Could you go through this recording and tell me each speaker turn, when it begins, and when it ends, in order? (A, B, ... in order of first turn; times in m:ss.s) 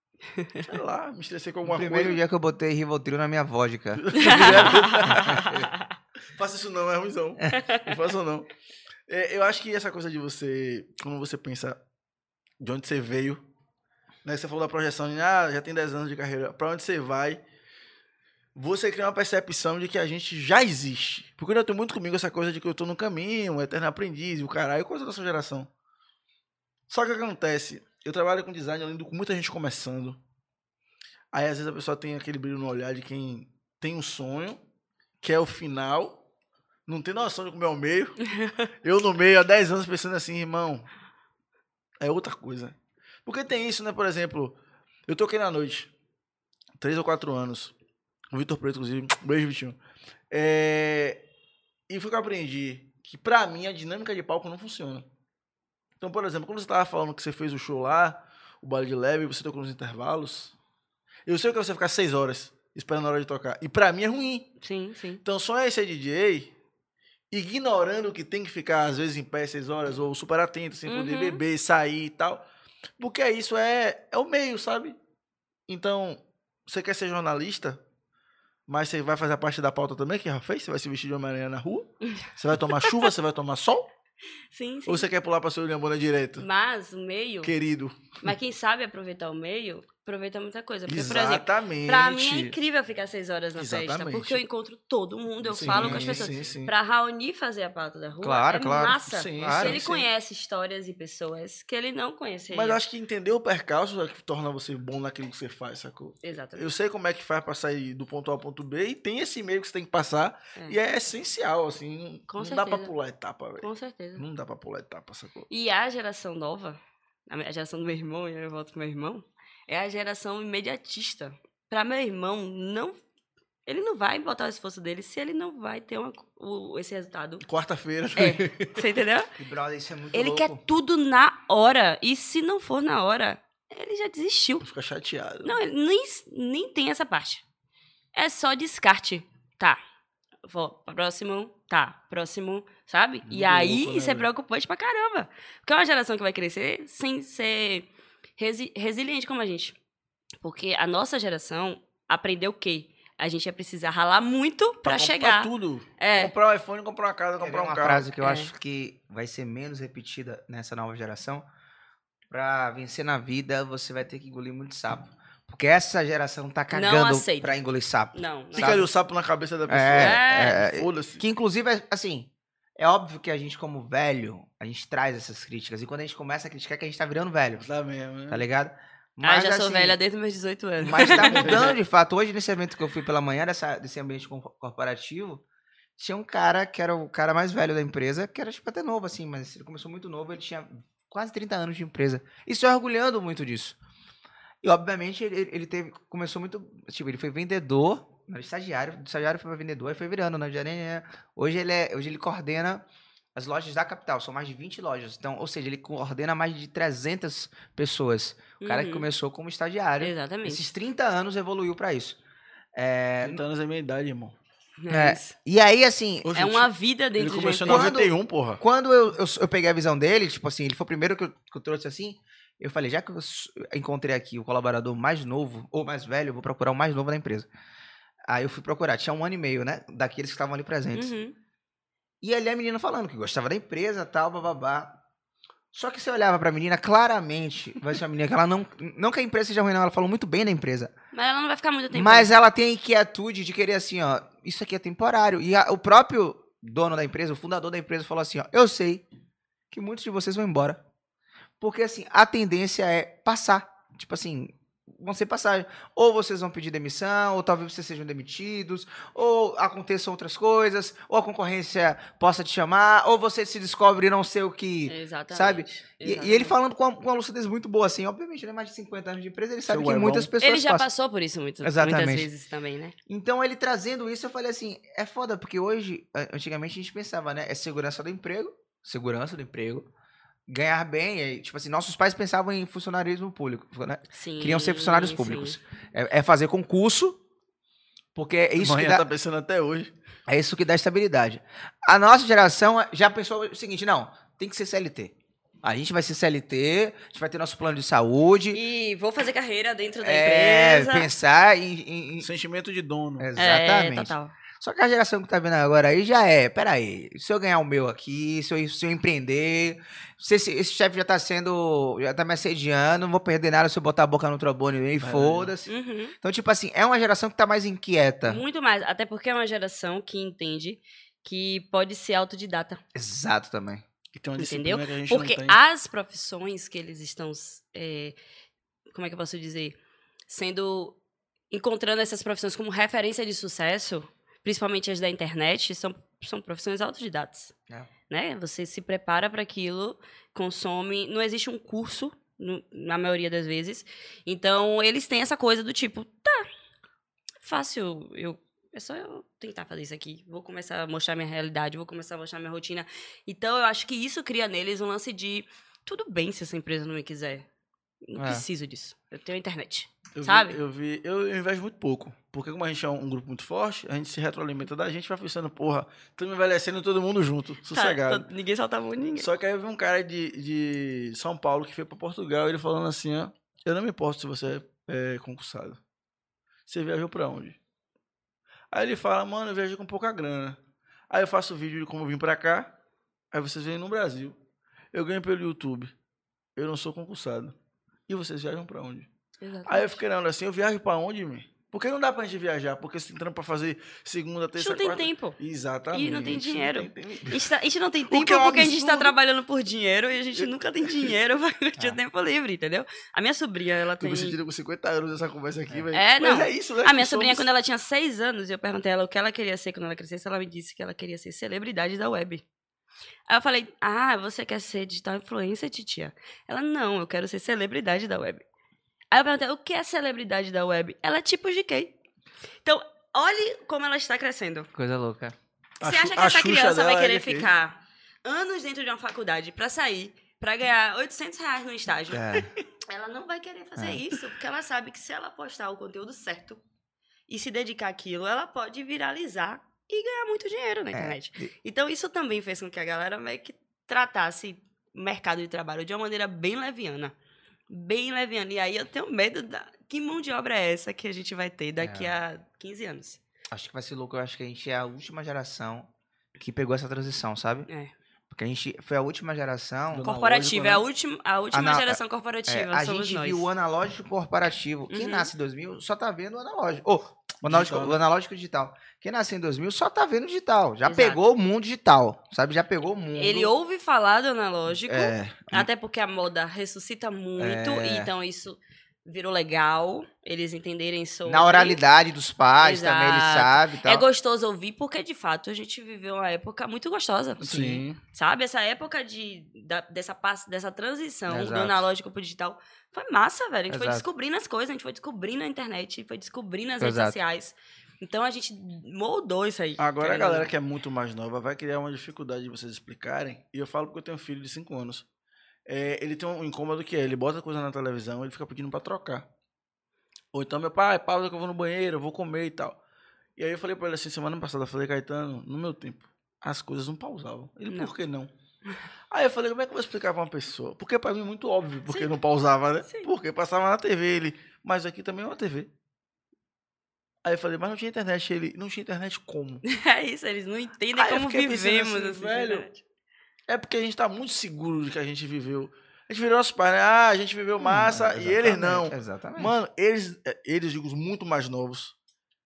0:00.4-0:00.7 A
0:00.7-0:02.2 B
0:01.7-0:05.7 C
0:04.0-0:05.5 B
0:04.2-0:05.9 A
0:06.3-0:08.5 B
0:07.5-0:07.9 A
0:09.1-0:11.8 B
0:12.6-0:13.4 B
0:14.2-0:17.4 B
0:18.6-0:25.7 B
0:26.9-0:30.2 B
0:31.3-0:34.6 B
0:35.2-0:36.2 B
0:36.9-0:40.9 B
0:42.0-0:44.6 B
0:45.1-0:45.9 B
0:46.8-0:47.7 B
0:48.3-0:49.8 B
0:50.3-0:51.2 B
0:51.9-0:55.0 B
0:56.0-1:00.5 B
1:01.3-1:04.5 B
1:04.6-1:05.2 A
1:05.2-1:06.5 B
1:07.3-1:12.4 B
1:10.9-1:11.4 A
1:13.0-1:15.0 B
1:15.7-1:17.8 B
1:18.7-1:23.9 B
1:24.5-1:25.1 A
1:24.9-1:26.5 B
1:26.4-1:27.5 A
1:27.4-1:28.2 B
1:28.2-1:42.8 A
1:30.9-1:32.6 B
1:33.6-1:34.4 B
1:35.4-1:36.7 B
1:35.7-1:36.3 C
1:38.2-1:39.8 C
1:39.1-1:40.0 B
1:42.5-1:55.5 B
1:46.2-1:46.7 A
1:52.3-1:52.9 A
1:53.6-1:54.2 A
1:55.5-2:03.0 A
2:03.7-2:07.4 A
2:07.4-2:08.8 B
2:08.2-2:09.3 A
2:09.4-2:10.6 C
2:10.1-2:14.7 A
2:14.6-2:15.6 B
2:15.4-2:17.4 A
2:18.2-2:19.8 A
2:20.5-2:29.8 A
2:23.3-2:24.3 B
2:30.4-2:36.3 A
2:34.8-2:38.1 B
2:37.4-2:41.4 C
2:38.2-2:38.5 A
2:42.3-2:48.9 C
2:46.7-2:47.6 A
2:48.1-2:48.8 A
2:48.5-2:51.2 B
2:49.7-2:57.6 C
2:50.0-2:50.7 A
2:57.6-2:58.4 B
2:58.3-3:00.0 C
2:59.2-3:01.7 A
3:00.8-3:05.4 C
3:06.0-3:13.8 C
3:14.6-3:22.8 C
3:23.4-3:32.2 C
3:28.6-3:29.1 A
3:30.0-3:30.7 A
3:32.8-3:33.4 C
3:33.2-3:34.4 B
3:34.8-3:35.4 A
3:34.9-3:36.4 C
3:36.2-3:38.6 B
3:36.4-3:37.9 A
3:37.7-3:47.5 C
3:48.3-3:51.1 C
3:50.9-3:51.4 A
3:52.2-3:55.0 C
3:55.7-4:00.9 C
4:01.1-4:02.3 A
4:01.9-4:09.1 C
4:09.7-4:10.8 C
4:11.6-4:30.9 C
4:24.9-4:26.6 A
4:29.7-4:30.3 B
4:30.4-4:33.0 A
4:31.6-4:32.3 C
4:33.1-4:39.9 C
4:40.5-4:47.2 C
4:44.1-4:45.6 A
4:48.2-4:49.1 C
4:48.6-4:49.9 B
4:50.3-4:58.6 C
4:58.5-5:01.1 A
5:00.0-5:02.3 C
5:02.2-5:03.3 B
5:03.2-5:15.7 C
5:03.4-5:04.4 A
5:15.0-5:15.5 B
5:15.7-5:16.1 A
5:16.2-5:18.4 C
5:18.3-5:22.8 A
5:23.0-5:23.8 C
5:24.1-5:25.6 B
5:24.4-5:28.2 A
5:28.9-5:29.8 A
5:30.3-5:31.0 A
5:31.5-5:37.5 A
5:38.1-5:46.5 A
5:47.4-5:57.5 A
5:58.0-6:00.6 A
5:58.2-5:58.4 C
6:00.2-6:08.3 B
6:07.7-6:09.3 A
6:09.2-6:15.8 B
6:16.7-6:17.6 B
6:18.7-6:20.6 B
6:21.1-6:22.7 B
6:23.3-6:24.4 B
6:24.9-6:25.9 B
6:26.6-6:27.6 B
6:28.1-6:29.1 B
6:29.4-6:30.0 A
6:29.7-6:37.6 B
6:34.6-6:35.4 A
6:35.9-6:44.4 A
6:38.1-6:39.1 C
6:38.2-6:39.1 B
6:40.4-6:41.1 B
6:44.0-6:47.5 B
6:45.9-6:52.4 A
6:53.3-6:58.4 A
6:59.1-7:01.9 A
7:02.6-7:04.7 A
7:04.7-7:05.4 C
7:05.8-7:07.5 B
7:05.8-7:16.6 A
7:12.1-7:12.5 C
7:13.8-7:14.0 C
7:17.3-7:27.2 A
7:20.9-7:21.5 C
7:27.7-7:33.2 A
7:31.8-7:32.1 C
7:33.5-7:37.7 C
7:37.7-7:37.9 A
7:38.3-7:40.1 C
7:39.9-7:40.8 B
7:40.0-7:43.5 A
7:41.5-7:53.5 C
7:44.9-7:45.3 A
7:47.4-7:48.0 B
7:50.8-7:51.2 A
7:53.2-8:01.8 A
7:54.7-7:55.7 C
7:57.4-7:58.1 C
8:01.2-8:04.0 C
8:02.6-8:20.5 A
8:07.4-8:08.0 B
8:11.3-8:11.9 C
8:13.7-8:14.1 C
8:16.8-8:17.2 C
8:19.8-8:25.0 B
8:25.7-8:29.3 B
8:30.3-8:32.8 B
8:33.4-8:38.3 B
8:39.1-8:45.7 B
8:41.9-8:42.1 A
8:47.2-8:49.6 B
8:49.7-8:52.8 A
8:51.0-8:52.7 B
8:53.5-9:02.0 B
8:57.6-8:59.5 C